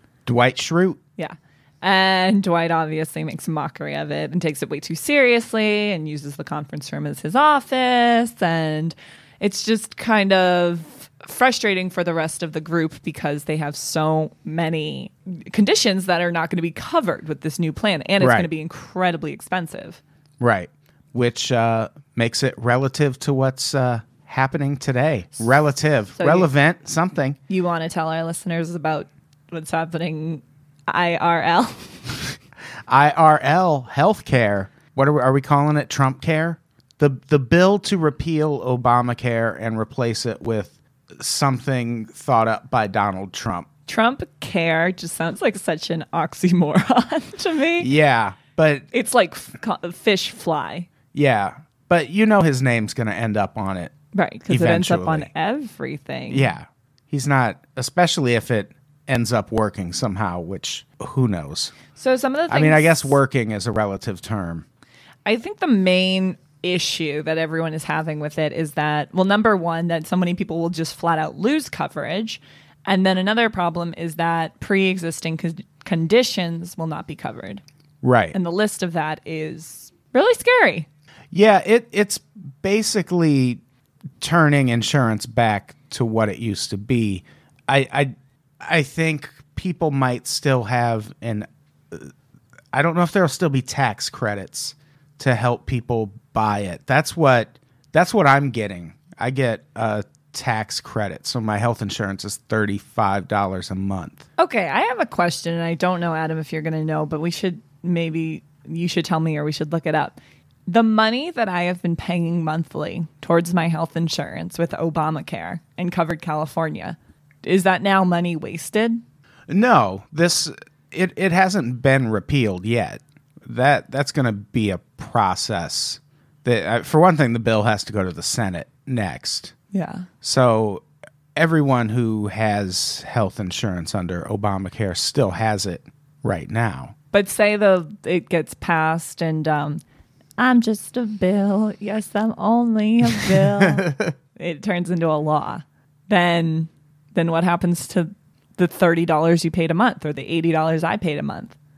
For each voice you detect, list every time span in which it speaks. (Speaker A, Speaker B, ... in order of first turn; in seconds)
Speaker A: 0.3-1.0, 18.2-18.5, 20.4-27.4, 32.9-43.7, 47.8-48.9, 51.1-53.9, 54.5-55.3, 56.3-61.8, 62.5-64.7, 78.0-78.4, 81.3-83.6, 84.2-92.1, 92.7-104.3, 119.5-129.5, 130.2-130.8, 131.3-136.9, 143.6-144.1
Speaker B: 1.2-20.0, 26.1-26.5, 27.5-32.1, 43.9-47.9, 48.9-50.9, 54.1-56.5, 61.9-63.1, 65.2-77.6, 78.3-80.9, 104.4-119.0, 129.7-130.1, 137.1-139.8, 140.4-151.6